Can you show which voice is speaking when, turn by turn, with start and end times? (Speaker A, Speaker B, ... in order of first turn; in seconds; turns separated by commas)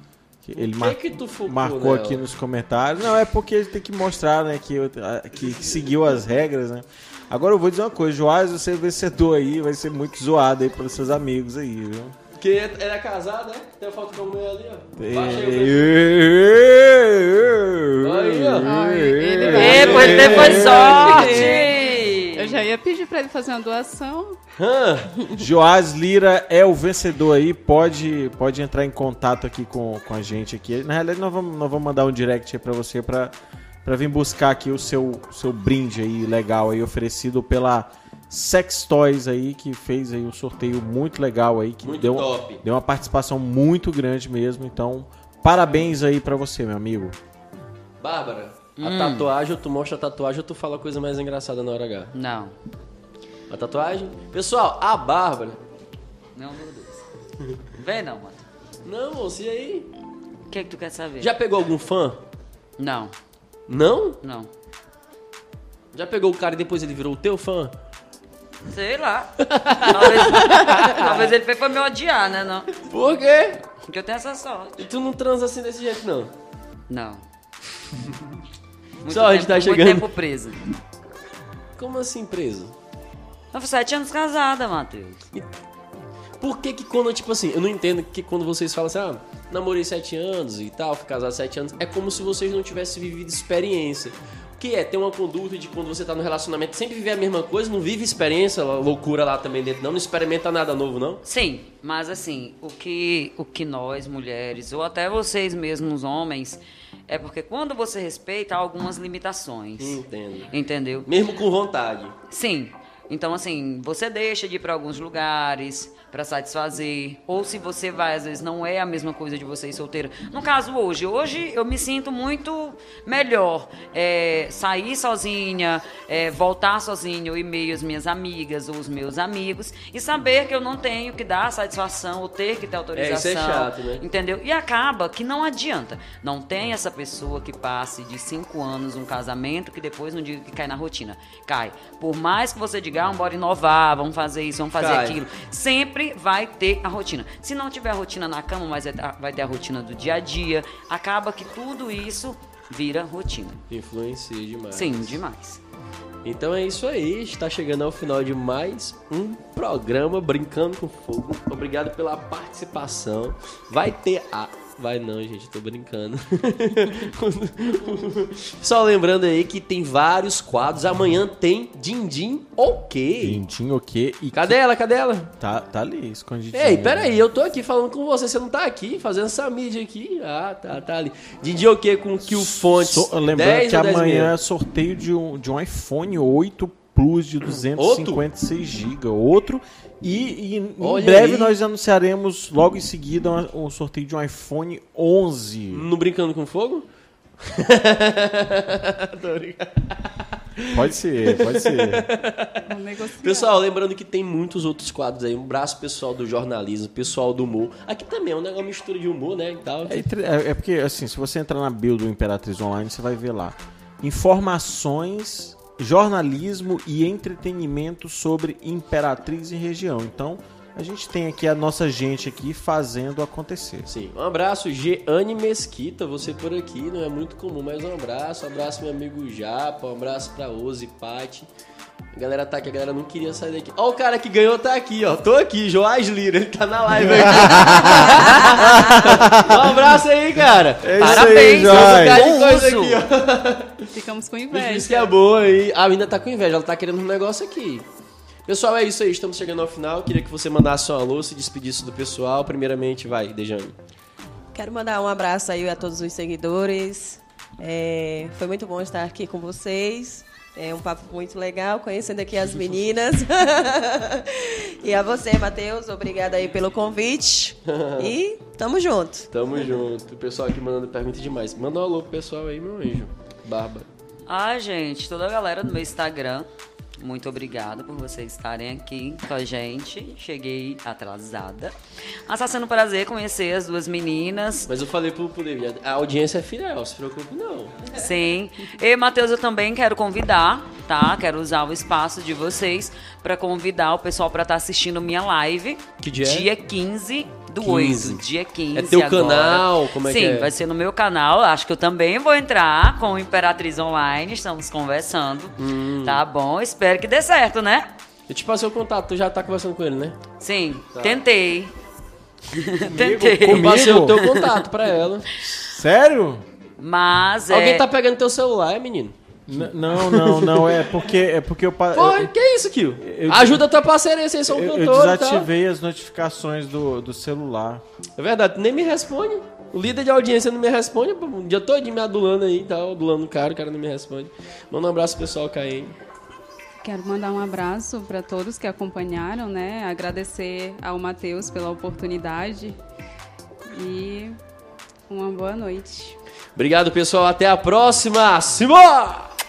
Speaker A: 0.4-12.2, Speaker B: 0.6-2.2, Speaker B: 5.5-5.9, Speaker B: 12.3-16.0, Speaker A: 15.0-21.3, Speaker B: 18.0-18.7, Speaker C: 18.6-24.4, Speaker B: 19.4-21.5, Speaker D: 19.5-22.7, Speaker B: 24.6-25.3, Speaker A: 25.4-33.3, Speaker A: 33.9-47.1, Speaker B: 41.8-42.6, Speaker B: 48.0-52.1, Speaker D: 48.8-49.3, Speaker D: 52.1-52.5, Speaker B: 53.5-55.6, Speaker D: 56.4-57.0, Speaker D: 57.8-58.4, Speaker B: 58.9-59.9, Speaker D: 60.5-61.3, Speaker B: 61.2-62.2, Speaker D: 62.8-63.1, Speaker B: 63.7-64.2, Speaker D: 64.2-64.5, Speaker B: 65.9-67.7, Speaker D: 68.7-72.7, Speaker B: 69.4-71.3, Speaker B: 72.8-73.6, Speaker D: 73.8-74.9, Speaker B: 74.8-76.3, Speaker D: 76.9-77.2, Speaker B: 78.0-78.3, Speaker D: 79.0-80.6, Speaker B: 79.1-80.1, Speaker B: 81.8-82.7, Speaker D: 83.5-85.2, Speaker B: 86.4-101.2, Speaker D: 101.2-111.1, Speaker B: 109.8-110.5, Speaker B: 111.1-112.2, Speaker D: 112.3-153.6, Speaker B: 132.9-134.0, Speaker B: 144.8-145.2, Speaker B: 153.7-155.2, Speaker D: 154.7-155.6, Speaker B: 156.2-173.4, Speaker A: 173.2-174.6, Speaker B: 174.3-175.3, Speaker A: 175.4-177.2, Speaker B: 176.5-184.3, Speaker A: 182.2-195.9, Speaker B: 187.7-188.3, Speaker B: 190.8-191.6, Speaker B: 195.7-196.8, Speaker B: 197.4-210.0, Speaker A: 200.7-202.1, Speaker C: 202.7-203.6, Speaker A: 209.9-223.9, Speaker B: 223.9-231.5, Speaker B: 232.1-243.9, Speaker A: 236.9-240.0, Speaker A: 240.8-242.3, Speaker D: 241.0-243.0, Speaker C: 243.9-245.1, Speaker B: 244.5-247.9, Speaker B: 248.5-253.8, Speaker E: 254.5-269.3, Speaker B: 267.7-268.2, Speaker B: 269.3-273.9, Speaker D: 274.3-281.8, Speaker D: 282.3-284.7, Speaker B: 284.7-287.8, Speaker D: 287.9-307.9, Speaker B: 296.0-296.5, Speaker B: 297.6-300.5, Speaker B: 305.6-306.2, Speaker B: 308.3-310.2, Speaker D: 310.4-311.7, Speaker B: 310.9-311.2, Speaker D: 312.5-314.6, Speaker A: 312.9-314.3, Speaker B: 312.9-315.3, Speaker A: 315.4-316.4, Speaker D: 316.8-317.9, Speaker B: 317.5-319.1, Speaker A: 319.5-322.3, Speaker B: 319.9-321.0, Speaker B: 321.9-325.5, Speaker A: 323.0-323.7, Speaker A: 324.5-327.8, Speaker B: 328.2-335.9, Speaker C: 336.8-342.8, Speaker C: 343.7-344.4, Speaker C: 345.1-346.2, Speaker B: 346.6-349.3